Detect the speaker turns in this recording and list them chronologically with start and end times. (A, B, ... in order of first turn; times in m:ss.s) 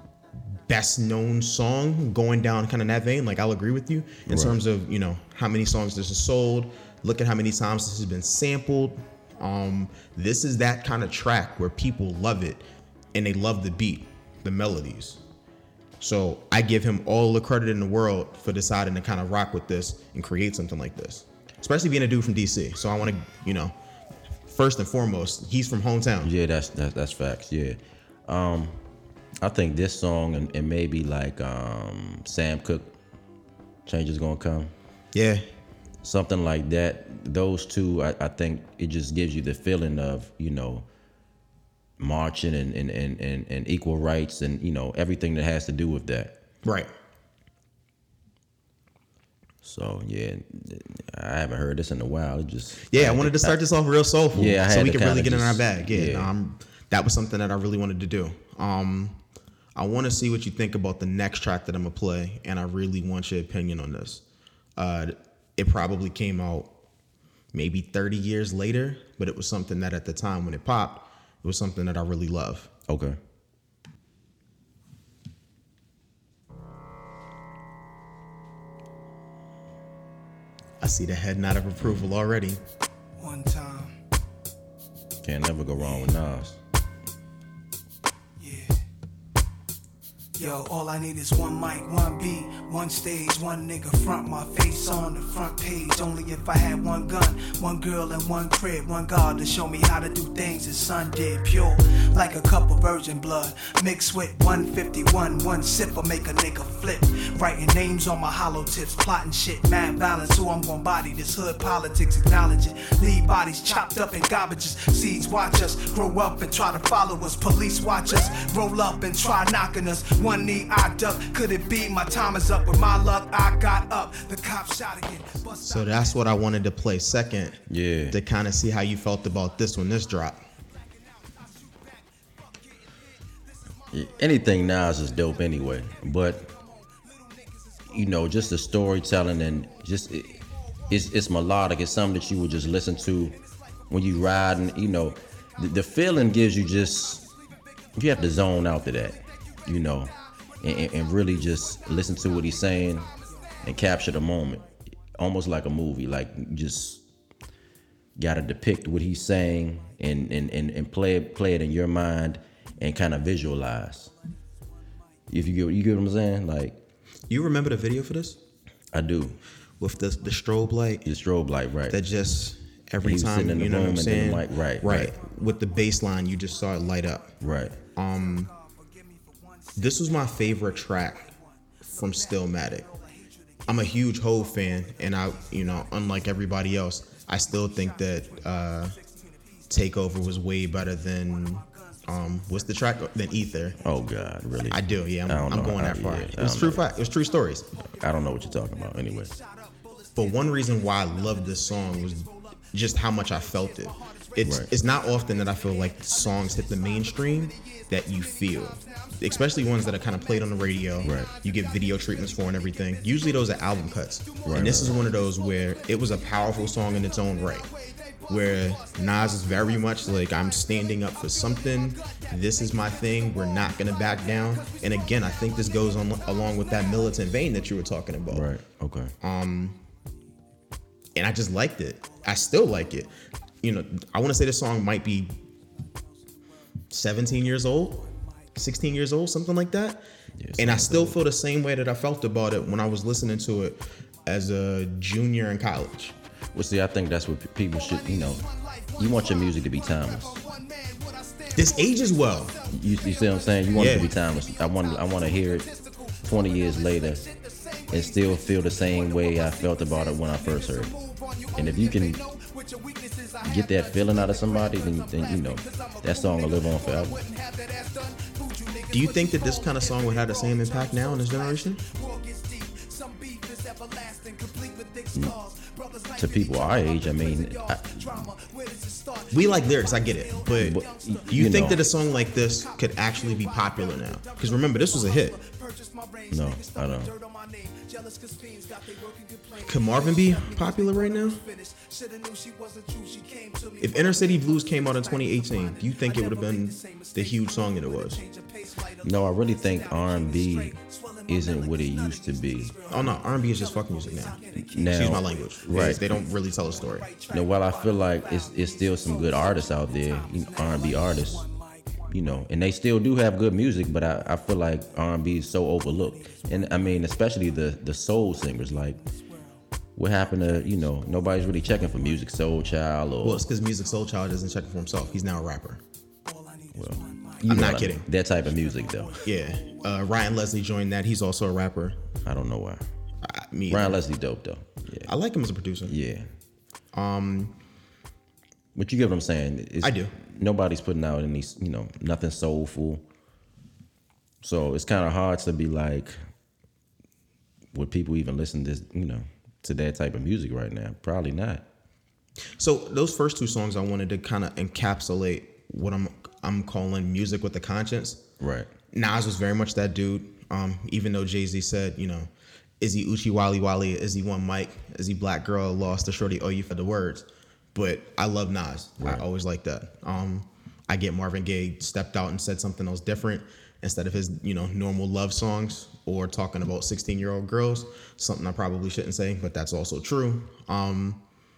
0:00.7-0:15.2 A
0:04.3-0:04.6 B
0:16.0-0:23.7 A
0:24.5-0:26.3 A
0:26.2-0:28.8 B
0:29.4-0:33.0 B
0:33.9-0:34.7 B
0:35.1-0:35.4 A
0:36.0-0:40.9 B
0:42.0-0:46.4 B
0:46.6-0:46.9 A
0:49.6-0:53.6 B
0:52.9-0:59.2 A
0:54.3-0:56.3 B
0:59.8-1:04.2 A
1:04.8-1:06.7 A
1:07.5-1:12.7 A
1:12.9-1:13.2 B
1:20.8-1:22.6 A
1:21.8-1:22.1 B
1:23.2-1:24.0 C
1:25.2-1:26.6 B
1:28.4-1:28.8 C
1:30.4-2:06.2 C
2:05.6-2:10.4 A
2:07.7-2:08.2 B
2:13.9-2:16.5 B
2:17.9-2:20.4 B
2:20.9-2:23.4 B
2:23.9-2:27.2 B
2:28.0-2:33.1 B
2:33.6-2:37.0 B
2:38.2-2:44.1 B
2:45.3-2:46.8 B
2:47.3-2:48.4 A
2:48.9-2:49.4 B
2:49.8-2:51.1 A
2:51.0-2:52.0 B
2:51.9-2:57.3 A
2:53.0-2:55.1 B
2:55.4-2:55.7 C
2:57.4-2:57.8 B
2:58.0-2:58.5 A
2:58.2-3:00.3 C
2:59.8-3:01.3 A
3:01.0-3:04.0 C
3:01.8-3:02.9 A
3:03.7-3:09.0 A
3:04.5-3:05.9 C
3:07.4-3:09.7 C
3:09.7-3:13.8 A
3:11.3-3:12.8 C
3:13.8-3:16.9 B
3:14.7-3:17.7 A
3:17.9-3:19.3 B
3:18.0-3:22.5 C
3:20.2-3:37.7 A
3:24.4-3:24.7 B
3:25.5-3:30.6 C
3:31.0-3:31.3 B
3:31.1-3:33.6 C
3:34.4-3:35.0 B
3:34.5-3:35.8 C
3:36.4-3:40.3 C
3:38.3-3:48.5 A
3:41.3-3:41.8 C
3:42.6-3:43.2 C
3:48.3-3:49.1 B
3:49.2-3:49.8 A
3:51.2-3:55.3 A
3:56.9-4:00.0 A
4:00.4-4:01.2 B
4:00.6-4:06.1 A
4:06.5-4:08.4 B
4:07.8-5:12.1 C
4:09.0-4:10.4 B
4:11.5-4:12.5 A
4:12.7-4:15.7 B
4:13.7-4:14.1 A
4:16.2-4:17.2 B
4:17.9-4:20.9 B
4:21.6-4:22.2 B
4:23.4-4:27.2 B
4:28.9-4:31.8 A
4:36.2-4:38.3 B
4:39.3-4:45.4 A
4:40.6-4:41.8 B
4:46.3-4:47.1 B
4:49.6-4:51.4 A
4:53.8-4:58.2 A
4:59.0-5:03.2 B
5:02.9-5:04.4 A
5:04.6-5:06.2 B
5:04.9-5:07.1 A
5:07.3-5:11.5 B
5:12.1-5:19.0 B
5:16.0-5:17.4 C
5:19.1-5:19.6 C
5:20.0-5:23.4 B
5:23.2-5:25.8 A
5:26.2-5:30.2 C
5:26.7-5:29.2 B
5:27.4-5:28.1 A
5:29.2-5:32.0 A
5:32.2-5:32.8 B
5:33.2-5:34.0 A
5:33.7-5:35.1 B
5:35.1-5:35.9 A
5:35.9-5:36.3 B
5:36.9-5:37.6 A
5:38.8-5:43.0 B
5:39.8-5:40.1 A
5:44.4-5:46.2 B
5:47.7-5:51.6 B
5:52.6-5:58.2 A
5:58.4-5:58.7 B
5:58.9-6:02.3 A
6:02.8-6:21.2 A
6:09.0-6:09.2 B